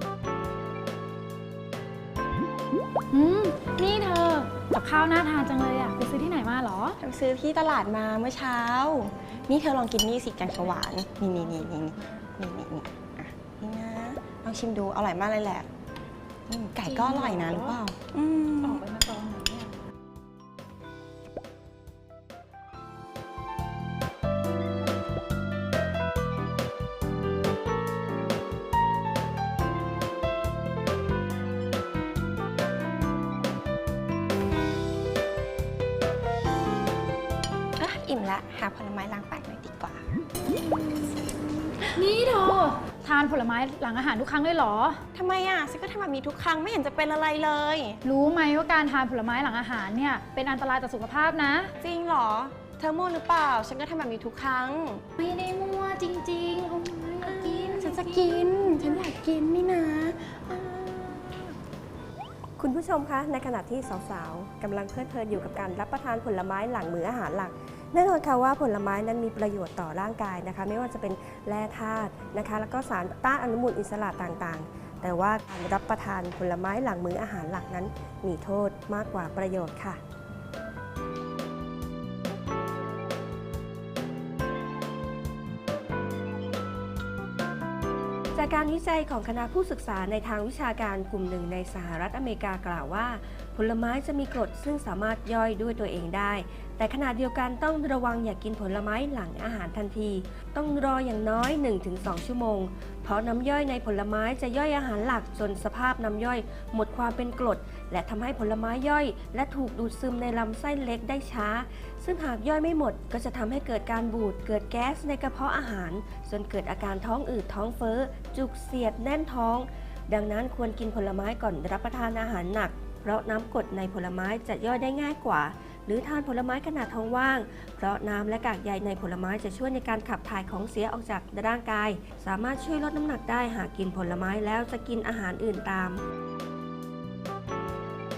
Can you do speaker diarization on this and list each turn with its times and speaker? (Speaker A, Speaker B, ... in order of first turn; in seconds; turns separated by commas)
Speaker A: 3.1-7.0, Speaker B: 7.0-15.7, Speaker B: 16.5-18.9, Speaker A: 16.8-17.8, Speaker A: 18.6-19.7, Speaker B: 37.8-41.8, Speaker A: 41.9-45.0, Speaker B: 45.1-48.0, Speaker A: 48.0-51.7, Speaker B: 51.8-55.0, Speaker A: 55.2-58.9, Speaker B: 57.2-61.5, Speaker C: 62.6-80.0, Speaker C: 88.3-136.0